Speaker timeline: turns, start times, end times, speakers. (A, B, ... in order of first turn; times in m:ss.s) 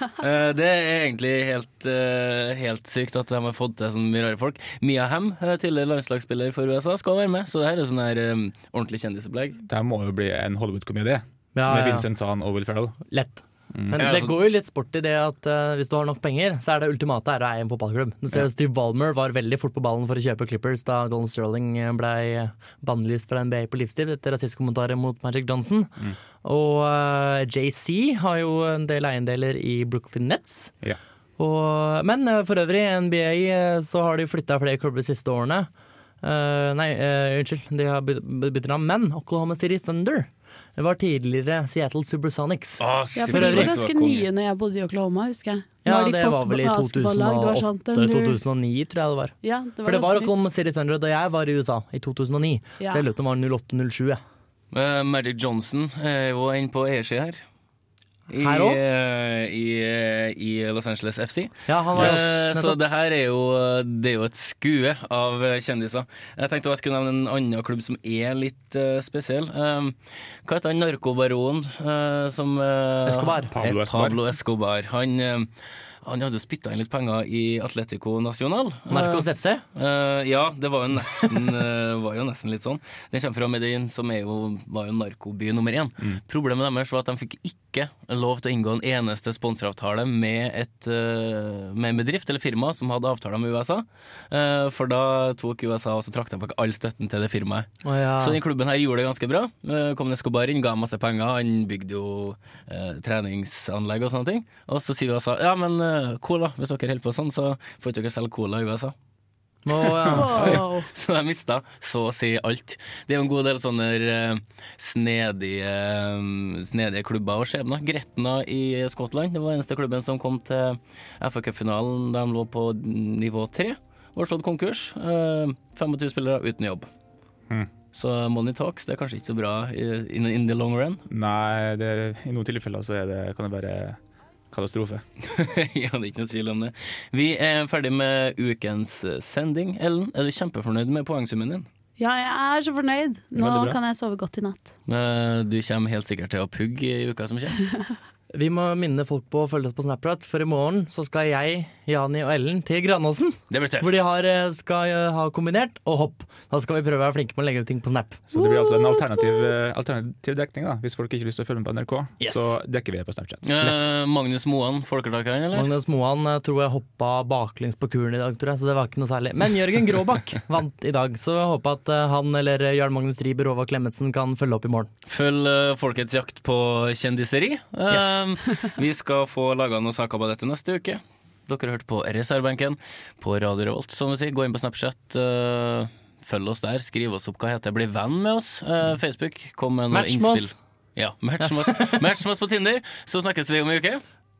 0:00.2-0:09.6 A
0:09.7-0:13.0 B
0:11.6-0:12.1 C
0:13.1-0:30.7 C
0:14.0-0:14.4 A
0:31.4-0:35.7 C
0:36.2-0:43.8 C
0:42.8-0:44.3 A
0:43.2-0:48.4 D
0:45.8-0:54.2 C
0:49.4-0:50.4 D
0:54.7-0:57.4 A
0:58.3-1:15.5 A
0:58.4-0:58.8 C
1:01.7-1:02.8 C
1:01.9-1:02.3 B
1:13.0-1:13.5 C
1:13.5-1:14.2 B
1:16.0-1:48.9 A
1:18.9-1:19.6 C
1:37.8-1:38.4 C
1:49.7-1:50.5 C
1:49.8-2:06.9 A
1:50.1-1:50.9 D
1:50.3-1:50.6 B
2:07.9-2:11.0 A
2:11.1-2:14.0 B
2:14.5-2:15.0 B
2:15.2-2:21.7 A
2:22.0-2:24.7 D
2:23.4-2:23.8 B
2:24.9-2:27.6 A
2:28.3-2:39.0 C
2:33.5-2:34.0 A
2:38.3-2:43.5 B
2:42.2-2:42.5 C
2:43.4-2:45.7 A
2:45.5-2:54.9 C
2:55.1-3:14.0 A
2:57.9-2:58.2 C
3:09.9-3:10.6 C
3:11.4-3:12.0 C